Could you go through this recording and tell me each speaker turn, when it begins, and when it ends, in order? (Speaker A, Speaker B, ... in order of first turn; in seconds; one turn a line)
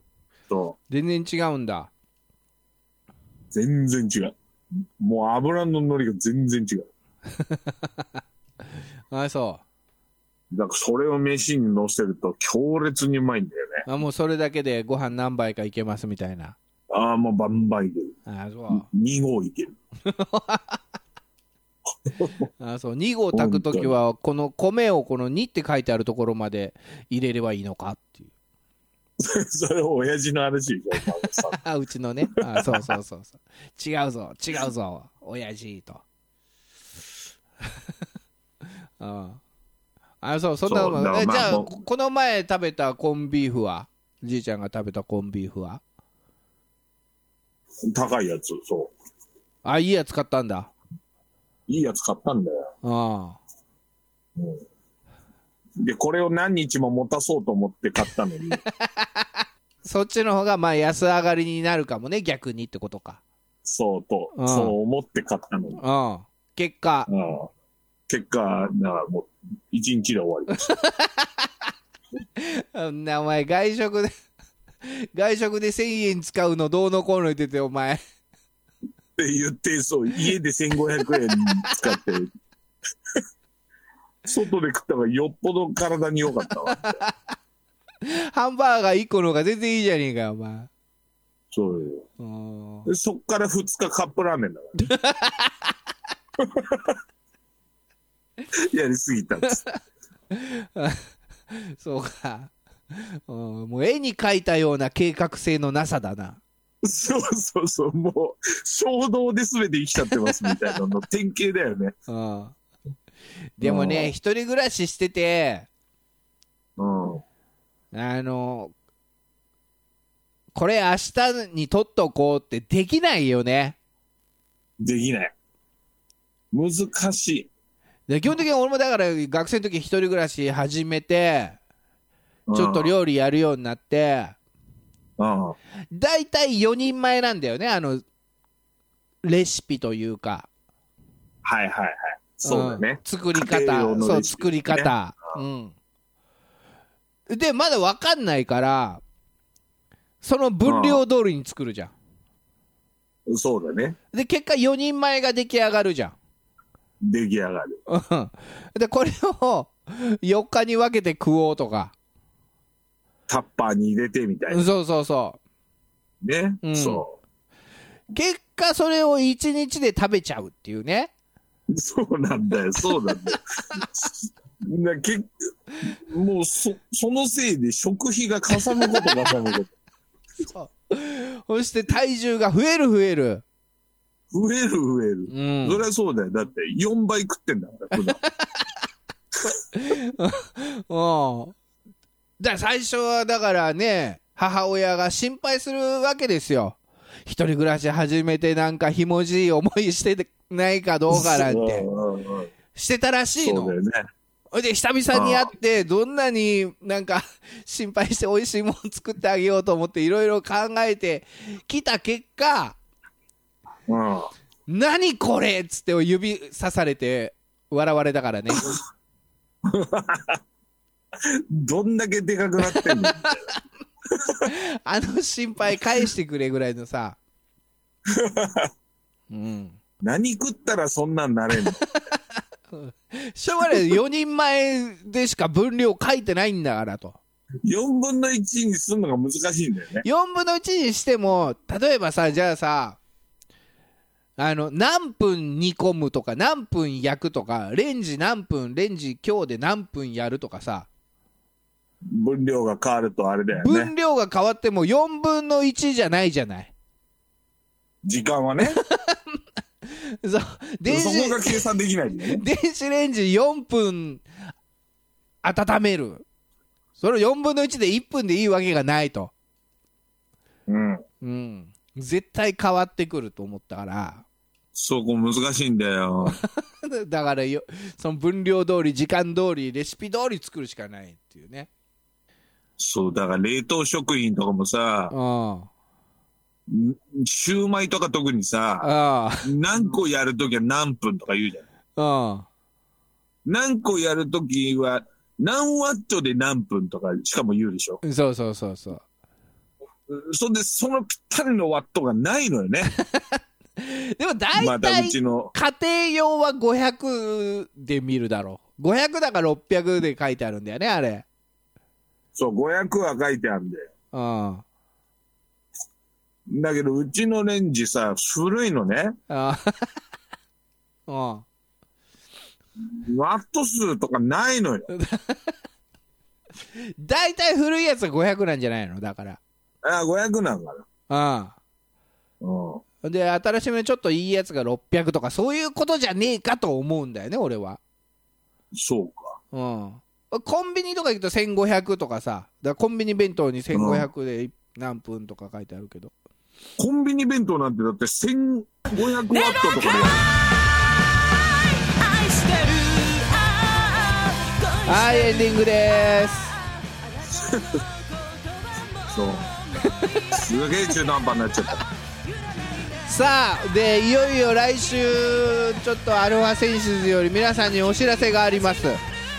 Speaker A: 0.5-0.8
Speaker B: 0.9-1.9
Speaker A: 3.5-4.3
Speaker A: 5.0-6.9
Speaker B: 7.3-8.1
Speaker B: 9.1-9.6
Speaker A: 10.5-13.8
Speaker B: 13.8-16.6
Speaker A: 16.9-18.1
Speaker B: 18.3-18.9
Speaker A: 18.7-19.7
Speaker B: 20.0-20.8
Speaker A: 22.0-22.5
Speaker B: 22.6-28.3
Speaker A: 23.3-24.0
Speaker A: 29.2-31.6
Speaker B: 31.5-36.0
Speaker A: 32.5-32.9
Speaker B: 39.0-39.4
Speaker B: 40.2-45.8
Speaker A: 40.6-41.7
Speaker A: 47.9-48.9
Speaker B: 49.6-50.7
Speaker A: 51.7-52.7
Speaker B: 52.8-53.4
Speaker A: 54.4-54.6
Speaker A: 55.8-58.6
Speaker B: 58.8-63.2
Speaker A: 63.6-65.8
Speaker B: 64.3-64.7
Speaker B: 65.8-67.1
Speaker A: 67.1-67.5
Speaker A: 68.1-70.7
Speaker B: 70.5-71.5
Speaker B: 72.4-74.1
Speaker B: 74.8-78.0
Speaker A: 79.2-82.3
Speaker B: 81.1-81.7
Speaker A: 84.2-87.0
Speaker B: 86.8-87.1
Speaker B: 88.0-90.7
Speaker A: 91.5-92.0
Speaker B: 92.2-92.9
Speaker A: 92.8-94.9
Speaker B: 94.8-95.7
Speaker A: 96.4-97.0
Speaker A: 98.5-99.6
Speaker B: 100.3-106.4
Speaker A: 106.8-111.9
Speaker B: 110.0-110.6
Speaker B: 112.1-112.5
Speaker B: 113.6-115.7
Speaker A: 113.6-114.1
Speaker A: 116.8-117.2
Speaker B: 117.9-118.7
Speaker B: 120.5-123.8
Speaker A: 124.8-125.3
Speaker A: 126.5-127.5
Speaker B: 128.1-131.6
Speaker A: 132.5-132.9
Speaker B: 132.5-134.4
Speaker A: 135.2-135.6
Speaker B: 135.9-138.0
Speaker B: 139.2-140.5
Speaker A: 141.4-144.9
Speaker B: 142.4-145.7
Speaker B: 147.3-149.0
Speaker B: 150.2-151.9
Speaker A: 150.7-151.0
Speaker A: 153.3-154.0
Speaker B: 154.1-156.2
Speaker A: 157.0-157.8
Speaker B: 157.9-161.9
Speaker A: 163.3-164.6
Speaker B: 164.5-165.4
Speaker A: 166.2-167.2
Speaker B: 166.6-167.0
Speaker B: 168.1-171.1
Speaker A: 171.7-175.3
Speaker A: 175.8-179.7
Speaker B: 178.8-179.3
Speaker B: 180.4-183.4
Speaker A: 184.3-188.2
Speaker B: 185.3-185.8
Speaker B: 188.1-188.6
Speaker B: 189.7-191.5
Speaker B: 192.4-201.9
Speaker A: 201.1-202.5
Speaker B: 202.7-203.7
Speaker A: 203.4-204.0
Speaker B: 204.5-212.8
Speaker A: 205.1-205.5
Speaker A: 213.9-214.3
Speaker B: 214.7-218.8
Speaker A: 219.6-220.4
Speaker A: 221.2-223.4
Speaker B: 222.6-223.6
Speaker A: 224.1-224.5
Speaker B: 224.4-227.2
Speaker A: 228.1-228.7
Speaker B: 229.3-229.8
Speaker A: 230.0-231.8
Speaker B: 231.6-232.2
Speaker B: 232.7-237.2
Speaker A: 237.6-240.0
Speaker B: 240.0-243.0
Speaker B: 244.4-250.9
Speaker A: 252.1-253.9
Speaker B: 253.5-256.7
Speaker A: 258.0-258.8
Speaker B: 258.6-259.2
Speaker B: 259.9-261.6
Speaker A: 260.9-262.4
Speaker B: 262.3-264.2
Speaker B: 265.4-266.2
Speaker B: 267.0-269.3
Speaker A: 270.7-271.0
Speaker B: 271.2-274.2
Speaker A: 274.7-276.4
Speaker B: 276.3-281.7
Speaker A: 282.8-285.1
Speaker B: 285.1-285.7
Speaker A: 286.7-288.9
Speaker B: 288.8-289.5
Speaker A: 289.4-291.6
Speaker B: 291.9-292.5
Speaker A: 293.4-298.0
Speaker B: 298.0-299.0
Speaker A: 300.1-302.9
Speaker B: 302.9-311.2
Speaker A: 304.6-305.5
Speaker A: 312.3-313.8
Speaker B: 314.1-314.6
Speaker A: 316.5-319.2
Speaker B: 319.3-319.9
Speaker B: 321.1-321.4
Speaker A: 322.9-324.9
Speaker B: 324.9-325.5
Speaker B: 326.8-329.4
Speaker A: 329.8-330.9
Speaker B: 331.1-331.6
Speaker A: 332.4-332.8
Speaker B: 333.0-337.8
Speaker A: 338.7-339.4
Speaker B: 339.5-346.1
Speaker A: 343.7-344.1
Speaker A: 346.8-350.3
Speaker B: 354.8-356.6
Speaker A: 357.2-357.8
Speaker A: 359.0-359.5
Speaker B: 359.8-360.4
Speaker A: 360.3-361.8
Speaker B: 363.0-369.0